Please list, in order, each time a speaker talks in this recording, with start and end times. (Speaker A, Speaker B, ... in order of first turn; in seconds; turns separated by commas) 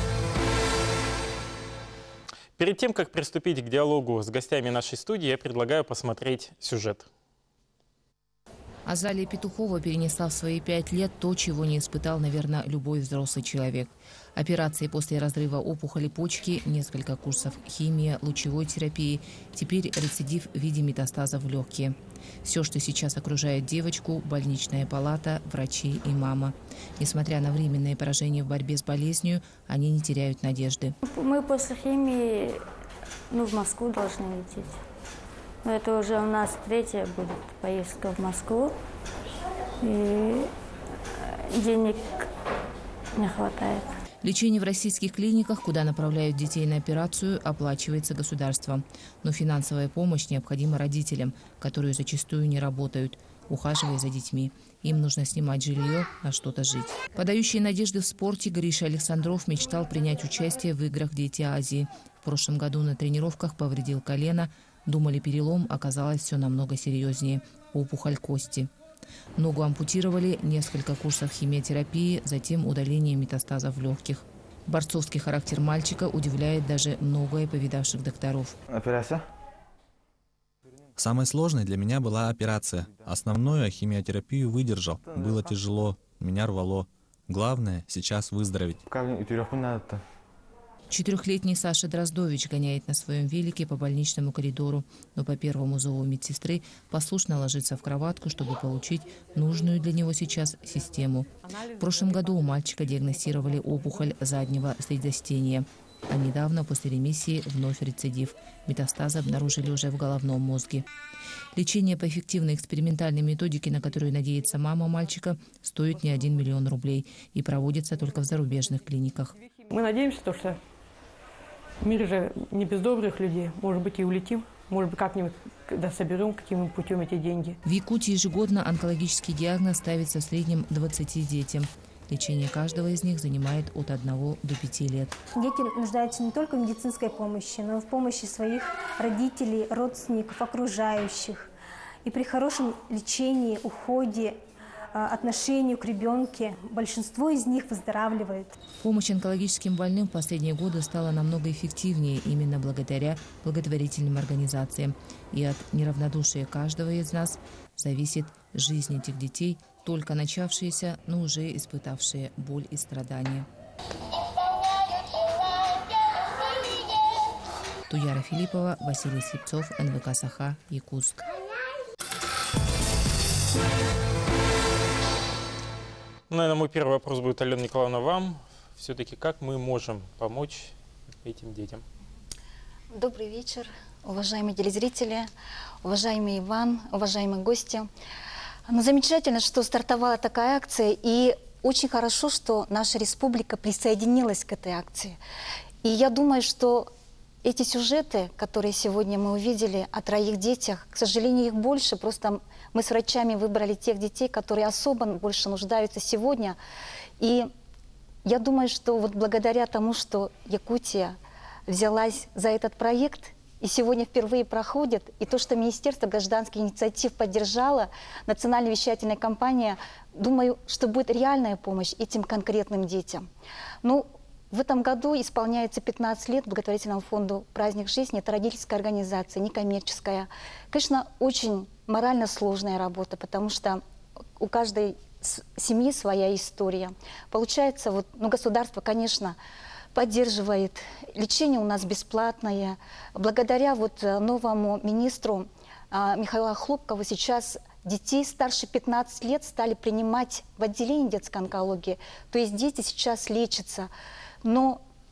Speaker A: 2.6-7.1, Speaker B: 8.9-31.0, Speaker C: 31.1-32.6, Speaker C: 33.3-34.8, Speaker C: 35.6-38.8, Speaker C: 39.8-40.5, Speaker C: 41.2-42.3, Speaker C: 43.2-44.0, Speaker B: 44.2-68.7, Speaker B: 69.4-78.6, Speaker D: 78.7-79.2, Speaker E: 81.0-88.8, Speaker D: 85.0-85.7, Speaker D: 88.9-90.0, Speaker B: 90.9-110.9, Speaker F: 101.8-102.2, Speaker B: 111.5-119.4, Speaker F: 119.7-120.6, Speaker F: 121.8-127.6, Speaker B: 127.7-135.2, Speaker G: 135.3-141.5, Speaker G: 142.1-144.4, Speaker G: 144.9-148.6, Speaker B: 148.8-163.5, Speaker B: 167.9-171.3, Speaker A: 176.3-180.7, Speaker A: 181.2-181.8, Speaker H: 182.9-185.3, Speaker H: 185.8-187.9, Speaker H: 188.7-195.2, Speaker H: 195.8-196.9, Speaker H: 197.4-206.6, Speaker H: 207.2-207.5, Speaker H: 208.2-223.3, Speaker H: 223.8-233.8, Speaker H: 234.4-239.4, Speaker H: 239.9-253.9, Speaker H: 254.4-254.8